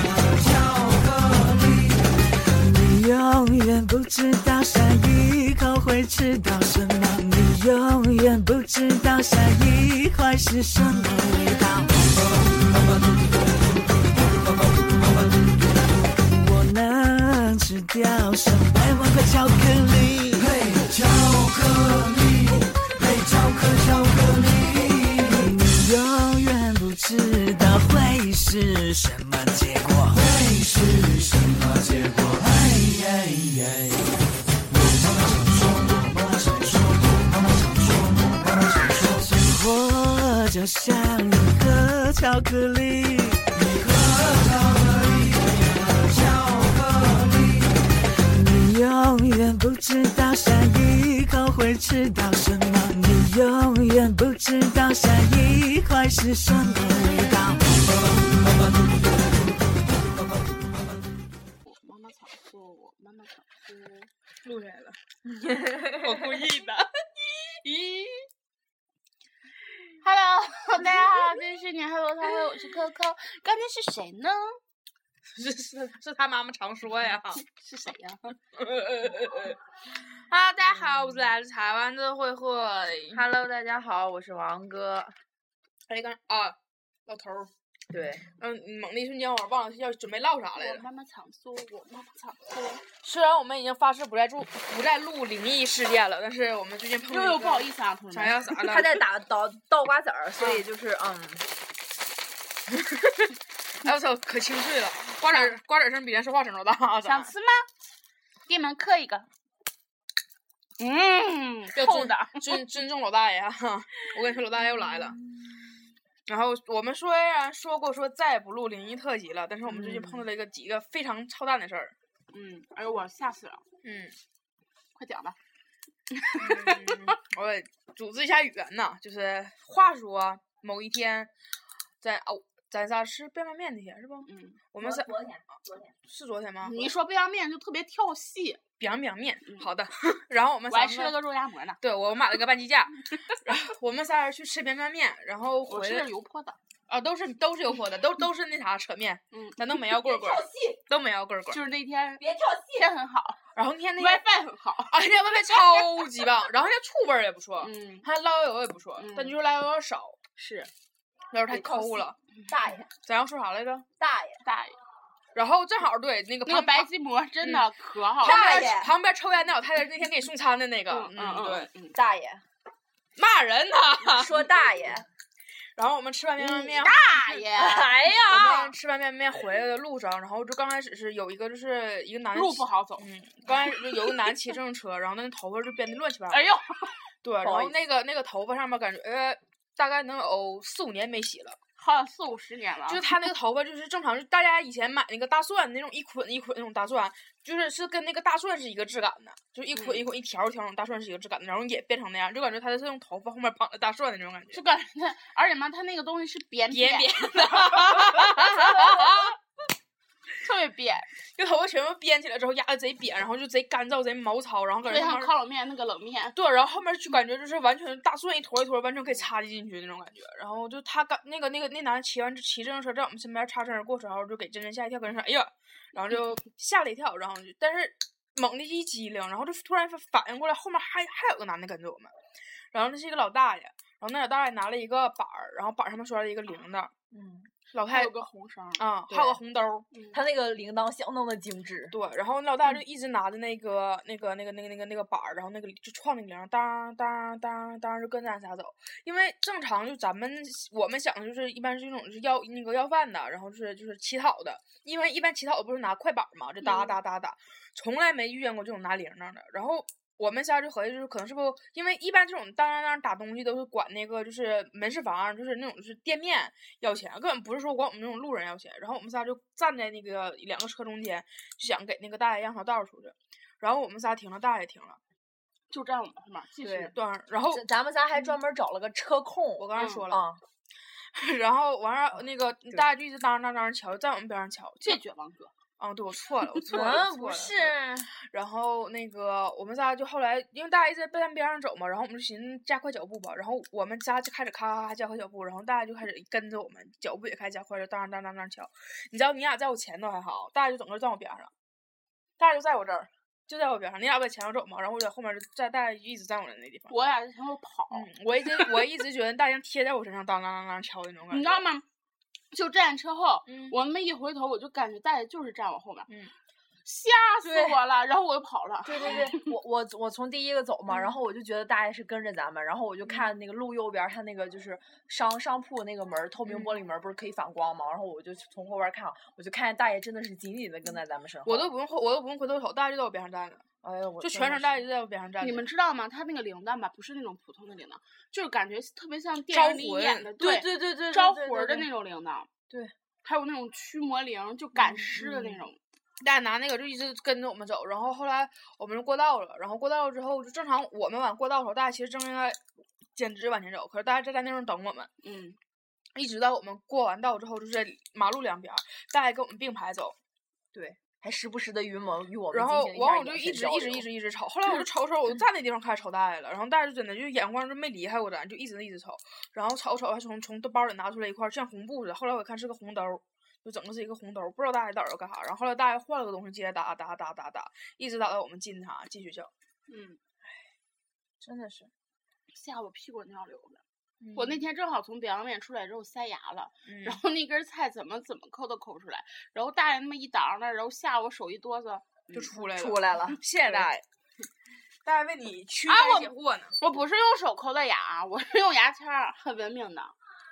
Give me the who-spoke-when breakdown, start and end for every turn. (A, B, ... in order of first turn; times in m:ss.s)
0:00.3-0:02.0 A
0:02.6-0:12.2 A
0:16.3-0:22.2 A
0:23.0-0:34.0 A
0:34.7-0:38.1 A
0:38.9-0:43.9 A
0:44.6-0:44.9 A
0:46.1-0:47.4 A
0:48.3-0:57.8 A
1:01.6-1:04.1 B
1:04.4-1:05.0 C
1:05.3-1:06.4 D
1:06.0-1:08.2 C
1:10.0-1:14.6 B
1:15.3-1:17.4 C
1:17.4-1:18.4 B
1:18.5-1:19.6 C
1:20.3-1:23.2 C
1:23.1-1:25.1 D
1:25.9-1:26.6 C
1:27.1-1:27.5 C
1:27.9-1:28.3 D
1:28.4-1:30.8 C
1:30.5-1:32.8 B
1:33.0-1:39.0 C
1:37.1-1:38.5 B
1:38.6-1:41.5 D
1:42.7-1:43.3 C
1:43.8-1:47.3 C
1:45.2-1:45.6 B
1:47.0-1:47.7 B
1:48.4-1:49.3 B
1:50.8-1:52.6 B
1:51.7-1:55.2 C
1:54.6-1:55.7 D
1:56.3-2:01.9 C
1:59.7-2:00.3 D
2:02.3-2:03.6 B
2:03.8-2:04.2 C
2:04.9-2:05.4 B
2:06.1-2:07.0 B
2:06.4-2:11.3 C
2:12.0-2:15.1 C
2:14.3-2:14.6 B
2:14.8-2:15.9 D
2:16.1-2:16.8 C
2:16.6-2:18.6 B
2:18.8-2:21.2 C
2:20.7-2:21.8 B
2:21.8-2:26.1 C
2:25.7-2:26.6 B
2:26.9-2:31.6 C
2:29.3-2:29.7 B
2:29.9-2:30.8 D
2:31.5-2:32.2 B
2:32.2-2:32.9 D
2:32.8-2:33.4 B
2:33.5-2:34.2 C
2:34.0-2:35.0 B
2:34.9-2:40.2 C
2:35.5-2:36.1 B
2:37.6-2:38.1 B
2:39.0-2:39.3 B
2:40.4-2:40.7 B
2:41.3-2:42.2 C
2:41.5-2:42.9 D
2:43.0-2:43.8 C
2:44.0-2:44.4 D
2:44.4-2:44.8 B
2:45.3-2:46.9 C
2:46.4-2:48.7 B
2:47.4-2:47.7 C
2:48.2-2:51.7 C
2:48.2-2:48.9 D
2:50.9-2:52.0 B
2:51.9-2:52.4 D
2:53.2-2:54.5 C
2:54.0-2:55.0 D
2:55.8-3:06.5 C
2:56.4-2:57.9 B
2:57.5-2:58.8 D
3:02.3-3:04.0 B
3:06.3-3:07.0 B
3:07.2-3:11.6 C
3:07.4-3:07.8 D
3:11.8-3:13.0 B
3:12.9-3:24.6 C
3:19.7-3:20.0 B
3:24.5-3:29.0 B
3:26.7-3:29.4 C
3:30.4-3:31.1 B
3:31.4-3:35.3 C
3:34.8-3:36.4 B
3:36.3-3:52.1 C
3:52.7-3:56.9 C
3:57.1-3:57.5 D
3:57.7-3:58.2 C
3:57.8-3:59.4 B
3:58.8-3:59.9 C
3:59.9-4:00.2 B
4:00.1-4:01.9 D
4:01.9-4:35.0 C
4:16.6-4:17.0 B
4:35.7-4:36.9 B
4:36.6-4:36.9 D
4:36.9-4:37.6 C
4:37.5-4:40.4 D
4:39.6-4:40.2 C
4:39.7-4:40.0 B
4:41.1-4:45.0 C
4:44.8-4:45.5 B
4:45.8-5:01.5 C
4:46.7-4:48.1 D
5:02.4-5:06.9 C
5:06.9-5:08.8 B
5:07.9-5:11.6 C
5:11.3-5:11.8 B
5:12.5-5:16.1 B
5:13.5-5:13.8 C
5:16.8-5:19.4 B
5:17.4-5:17.8 D
5:18.8-5:31.7 D
5:26.5-5:26.8 C
5:31.4-5:33.6 C
5:33.8-5:34.8 D
5:34.2-5:35.7 C
5:35.4-5:42.5 B
5:39.5-5:40.3 C
5:40.4-5:41.9 D
5:43.2-5:45.8 B
5:44.8-5:45.6 D
5:46.2-5:52.6 C
5:53.2-5:55.1 C
5:55.2-5:55.6 B
5:56.1-6:00.2 C
6:00.7-6:04.0 D
6:02.5-6:19.5 C
6:19.9-6:20.2 B
6:21.4-6:21.9 D
6:22.5-6:23.8 B
6:24.2-6:24.6 C
6:24.3-6:32.5 B
6:26.8-6:27.2 C
6:32.3-6:34.0 C
6:32.6-6:33.9 D
6:35.0-6:36.8 C
6:35.9-6:40.1 B